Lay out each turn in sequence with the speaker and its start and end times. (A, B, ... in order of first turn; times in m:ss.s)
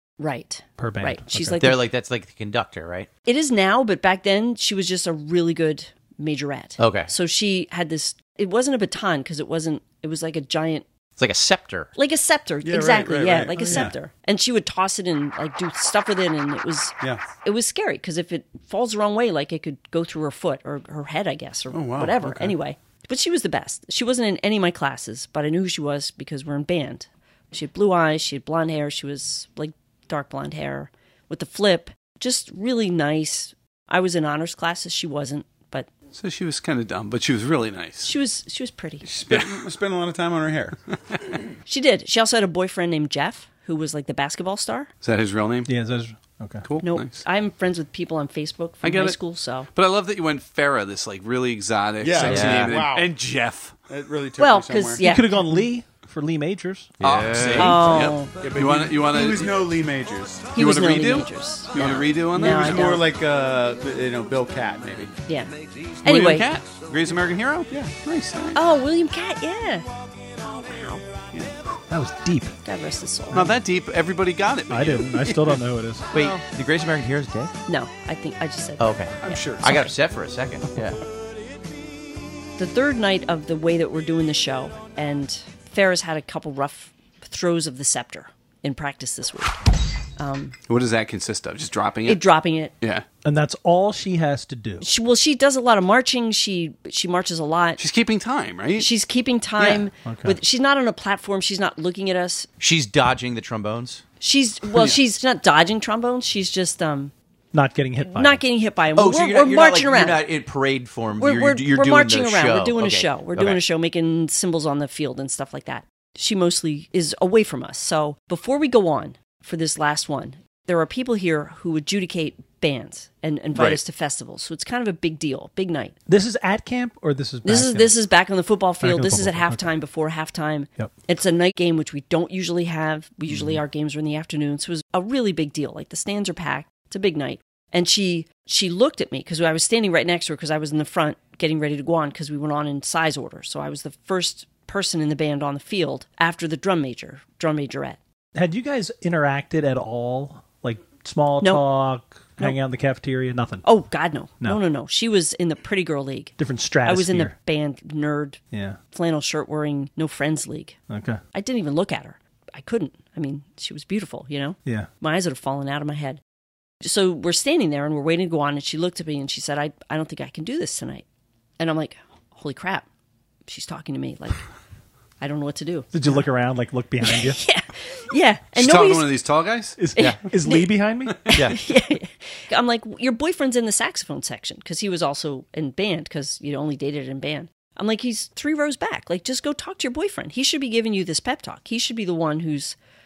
0:00.2-0:01.8 A
0:00.8-0:01.6 B
0:01.6-0:03.1 C
0:03.2-0:10.9 A
0:06.8-0:07.1 C
0:11.2-0:11.9 C
0:11.9-0:35.9 A
0:12.6-0:13.9 D
0:21.7-0:22.6 D
0:36.1-0:38.1 E
0:38.0-0:39.1 A
0:39.0-0:40.8 D
0:39.3-0:39.5 E
0:41.7-0:44.9 A
0:45.0-0:45.7 E
0:45.7-0:46.6 B
0:46.6-0:47.2 E
0:46.8-0:49.7 A
0:48.8-0:49.2 E
0:49.7-0:53.7 E
0:52.0-0:53.1 D
0:52.2-0:52.8 C
0:53.9-0:55.0 D
0:54.4-0:55.5 A
0:55.0-0:56.9 B
0:57.0-0:59.6 E
0:57.0-0:57.7 C
0:57.6-0:58.4 A
0:58.4-1:00.5 D
1:00.5-1:03.0 A
1:00.6-1:03.0 E
1:02.6-1:05.1 D
1:05.2-1:05.5 A
1:06.0-1:08.6 E
1:06.0-1:06.5 A
1:07.7-1:08.0 D
1:08.5-1:09.9 A
1:10.4-1:11.0 A
1:11.9-1:12.6 B
1:12.6-1:13.4 A
1:13.3-1:16.4 E
1:14.7-1:16.1 B
1:16.1-1:17.5 C
1:17.7-1:19.9 A
1:18.8-1:21.0 C
1:19.2-1:19.9 D
1:22.6-1:29.6 A
1:30.2-1:30.6 A
1:30.7-1:32.2 E
1:32.0-1:32.7 A
1:32.8-1:33.0 E
1:33.2-1:34.9 B
1:34.8-1:37.8 A
1:37.8-1:38.9 E
1:38.8-1:42.5 A
1:40.0-1:40.4 B
1:42.6-1:44.0 C
1:44.2-1:47.1 A
1:47.5-1:48.4 B
1:48.0-1:50.2 A
1:49.0-1:53.6 C
1:51.2-2:06.0 A
2:03.6-2:03.8 E
2:06.1-2:07.9 B
2:07.4-2:28.0 A
2:08.8-2:09.6 B
2:28.4-2:33.6 B
2:31.4-2:31.7 A
2:33.6-2:40.8 A
2:36.4-2:37.3 B
2:38.5-2:38.8 B
2:40.9-2:41.2 B
2:41.3-2:46.2 A
2:46.8-2:51.0 A
2:51.6-2:52.9 A
2:53.4-2:54.4 A
2:55.2-2:56.2 A
2:55.9-2:57.4 B
2:57.0-2:59.1 A
2:58.6-2:59.8 E
2:59.8-3:01.2 B
3:00.0-3:00.7 A
3:01.3-3:01.6 C
3:01.4-3:12.8 A